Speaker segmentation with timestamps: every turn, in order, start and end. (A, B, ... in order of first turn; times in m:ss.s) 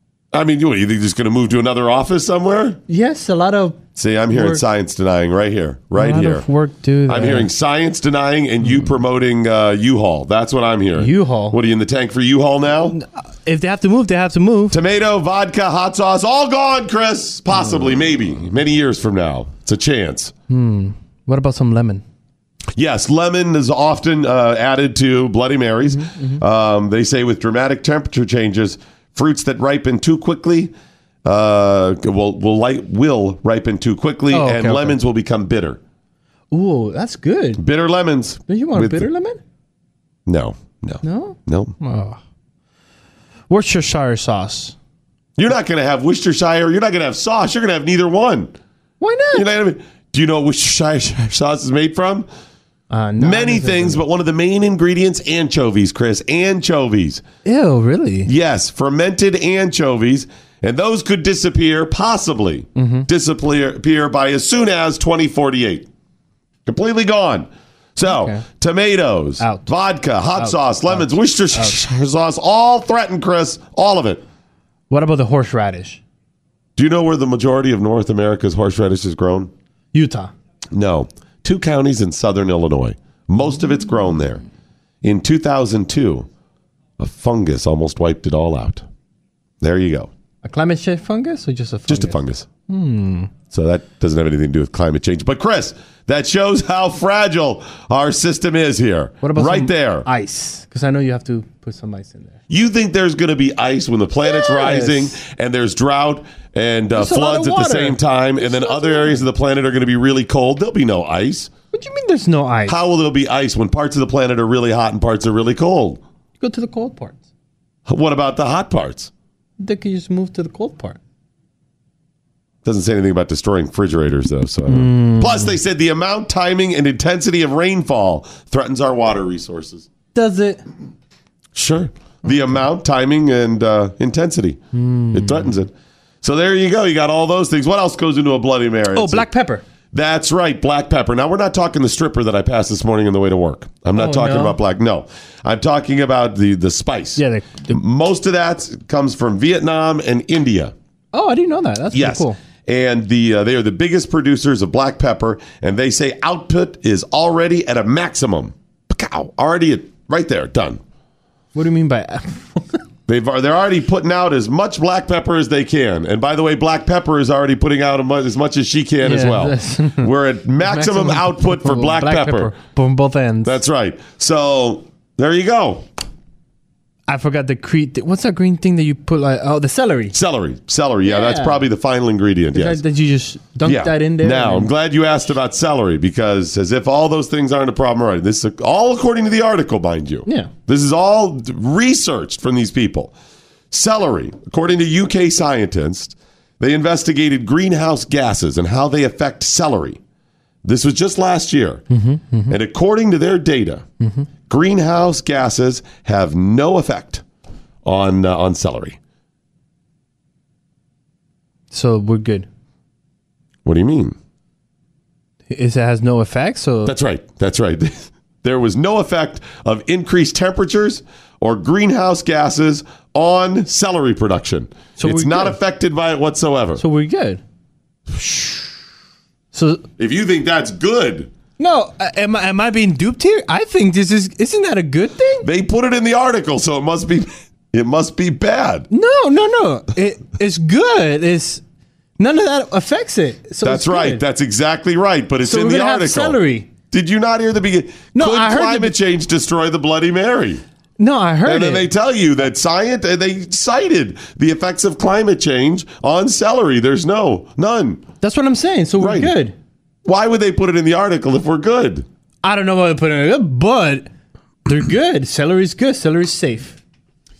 0:00.3-0:02.8 A
0:02.9-0:04.6 B
0:04.0-0:06.5 A
0:06.0-0:07.5 B
0:07.1-0:13.0 A
0:08.6-0:08.9 B
0:11.0-0:11.6 B
0:12.9-0:14.8 B
0:14.7-0:20.3 A
0:20.5-0:22.0 B
0:22.8-0:30.7 A
0:26.0-0:26.4 B
0:31.2-0:35.8 A
0:34.3-0:35.0 B
0:36.5-0:37.6 B
0:37.6-0:39.1 A
0:38.5-0:39.4 B
0:40.3-0:41.8 A
0:41.0-0:42.2 B
0:43.5-0:44.8 B
0:45.4-0:48.5 A
0:49.0-0:49.5 B
0:49.3-0:52.3 A
0:52.9-0:54.0 B
0:53.2-0:57.2 A
0:57.4-0:58.3 B
0:58.3-1:05.9 A
1:02.8-1:03.1 B
1:06.7-1:14.2 A
1:08.0-1:08.4 B
1:09.4-1:09.7 B
1:10.3-1:11.8 B
1:14.9-1:16.0 B
1:16.8-1:19.5 A
1:19.9-1:20.3 B
1:20.7-1:24.4 A
1:25.0-1:26.3 A
1:27.0-1:28.8 A
1:29.6-1:30.1 A
1:30.4-1:33.3 B
1:31.9-1:32.5 A
1:33.5-1:40.1 A
1:39.2-1:42.4 B
1:42.5-1:51.5 A
1:44.2-1:45.2 B
1:46.9-1:49.3 B
1:51.7-1:52.8 B
1:52.7-1:56.0 A
1:56.4-1:57.2 B
1:57.9-1:59.1 A
1:59.6-2:01.0 B
2:02.6-2:09.9 A
2:04.7-2:05.6 B
2:10.1-2:10.6 B
2:11.6-2:14.6 A
2:14.7-2:15.5 B
2:15.1-2:19.3 A
2:18.9-2:19.6 B
2:19.9-2:30.7 A
2:23.9-2:24.6 B
2:27.2-2:27.8 B
2:31.1-2:32.4 B
2:31.9-2:40.8 A
2:41.5-2:42.8 B
2:43.1-2:52.5 A
2:49.0-2:53.6 B
2:53.4-2:55.8 A
2:57.1-3:00.2 B
3:00.1-3:02.8 A
3:01.0-3:01.7 B
3:02.5-3:04.7 B
3:03.6-3:13.1 A
3:10.3-3:10.5 B
3:13.7-3:20.0 A
3:20.6-3:21.8 A
3:21.9-3:22.6 B
3:22.5-3:23.8 A
3:24.0-3:24.3 B
3:24.5-3:27.2 A
3:27.8-3:29.0 A
3:31.7-3:32.5 B
3:33.6-3:34.2 A
3:35.5-3:37.0 B
3:36.8-3:46.8 A
3:45.0-3:45.6 B
3:46.8-3:47.4 B
3:48.1-3:48.7 A
3:49.5-3:49.8 B
3:50.0-3:51.3 A
3:51.6-3:55.5 B
3:55.4-3:58.9 A
3:58.9-4:01.6 B
4:02.2-4:04.2 B
4:03.6-4:06.4 A
4:05.4-4:06.7 B
4:06.9-4:10.6 A
4:08.2-4:09.0 B
4:11.0-4:11.9 B
4:11.4-4:18.0 A
4:18.2-4:19.6 B
4:19.0-4:19.4 A
4:20.1-4:22.1 A
4:22.4-4:24.1 B
4:24.7-4:26.8 B